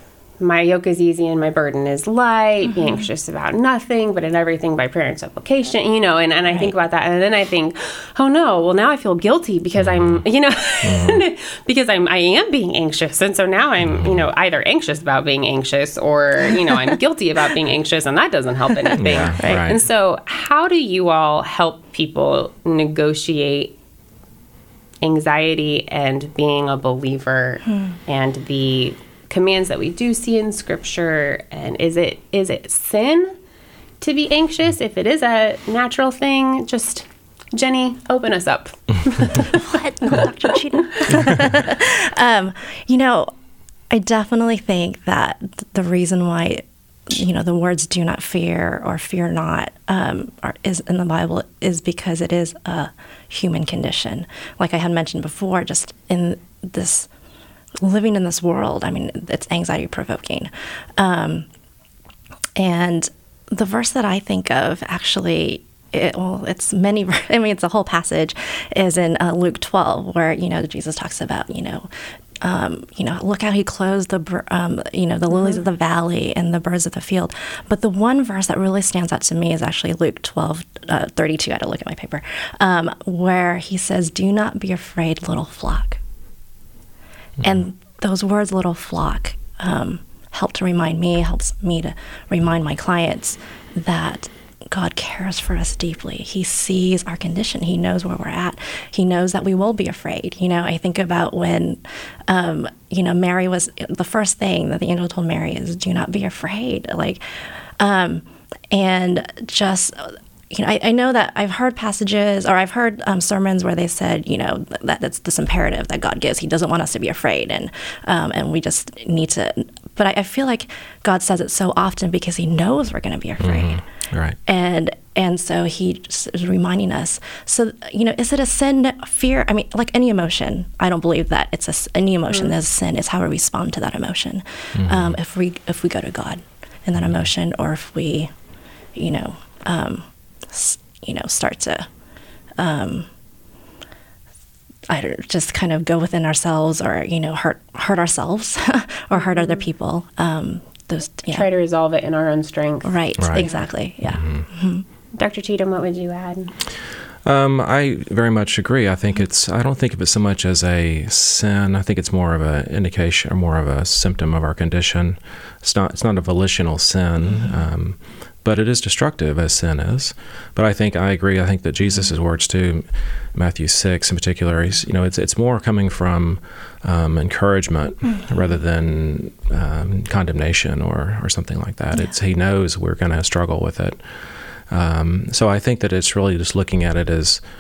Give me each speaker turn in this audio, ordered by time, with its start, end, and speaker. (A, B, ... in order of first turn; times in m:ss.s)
0:00.4-0:23.7 A
0:09.8-0:10.2 B
0:10.8-0:11.2 B
0:13.9-0:14.2 B
0:19.0-0:19.8 B
0:19.4-0:19.6 C
0:25.0-0:33.3 A
0:34.0-0:40.3 A
0:39.5-0:43.3 C
0:43.9-0:57.1 C
0:57.8-1:01.5 C
1:02.6-1:11.9 C
1:12.4-1:26.0 C
1:27.4-1:47.2 C
1:47.8-2:03.8 C
2:03.4-2:04.4 B
2:04.5-2:18.3 C
2:14.8-2:15.2 B
2:19.0-2:21.9 C
2:22.6-2:23.1 C
2:24.9-2:31.5 C
2:31.3-2:33.6 A
2:32.8-2:34.8 C
2:33.2-2:33.5 B
2:34.0-2:34.5 B
2:35.1-2:36.5 A
2:37.2-3:07.4 B